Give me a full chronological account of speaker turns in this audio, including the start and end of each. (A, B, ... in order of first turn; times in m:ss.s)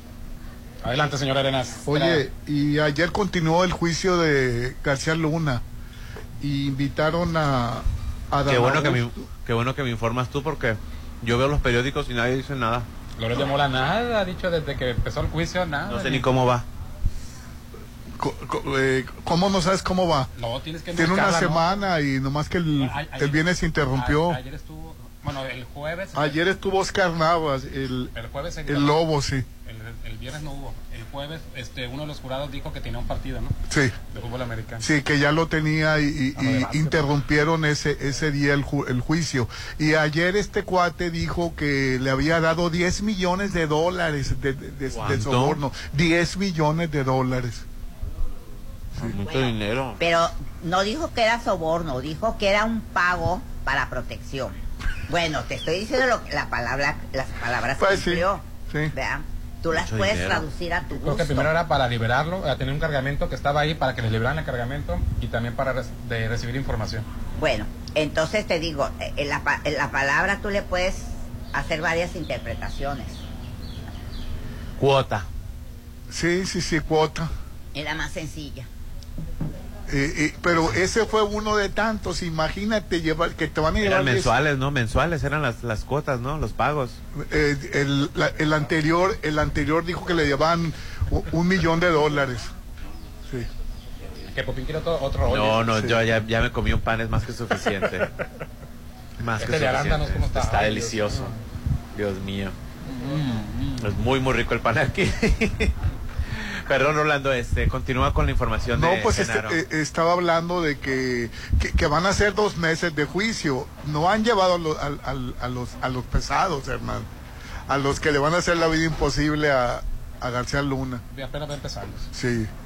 0:00.8-0:02.2 A
0:01.8-0:05.6 B
0:06.4-0:09.3 B
0:08.4-0:12.9 C
0:13.2-0:16.3 A
0:15.8-0:16.6 C
0:18.2-0:20.3 B
0:20.4-0:21.7 A
0:20.9-0:24.4 B
0:22.8-0:26.4 A
0:26.1-0:28.1 B
0:28.1-0:29.0 A
0:28.7-0:29.4 B
0:29.6-0:33.6 A
0:33.7-0:34.0 B
0:34.1-0:34.9 A
0:34.8-0:47.6 B
0:36.4-0:37.1 A
0:44.9-0:45.6 C
0:49.0-0:50.0 C
0:49.3-0:54.6 D
0:55.1-1:01.5 D
0:57.8-0:58.9 B
0:59.7-1:00.4 C
1:00.9-1:07.0 A
1:07.4-1:13.2 D
1:14.8-1:15.3 C
1:16.1-1:17.3 B
1:17.7-1:18.7 D
1:19.9-1:24.3 B
1:23.8-1:27.0 C
1:27.1-1:32.5 B
1:34.3-1:35.8 A
1:35.2-1:38.1 C
1:35.7-1:36.0 B
1:39.2-1:41.3 C
1:39.4-1:41.2 A
1:41.9-1:42.5 C
1:42.9-1:43.8 A
1:43.8-1:45.7 C
1:46.3-1:49.6 C
1:48.7-1:57.1 B
1:57.7-2:01.0 B
2:01.1-2:02.1 A
2:02.1-2:02.5 B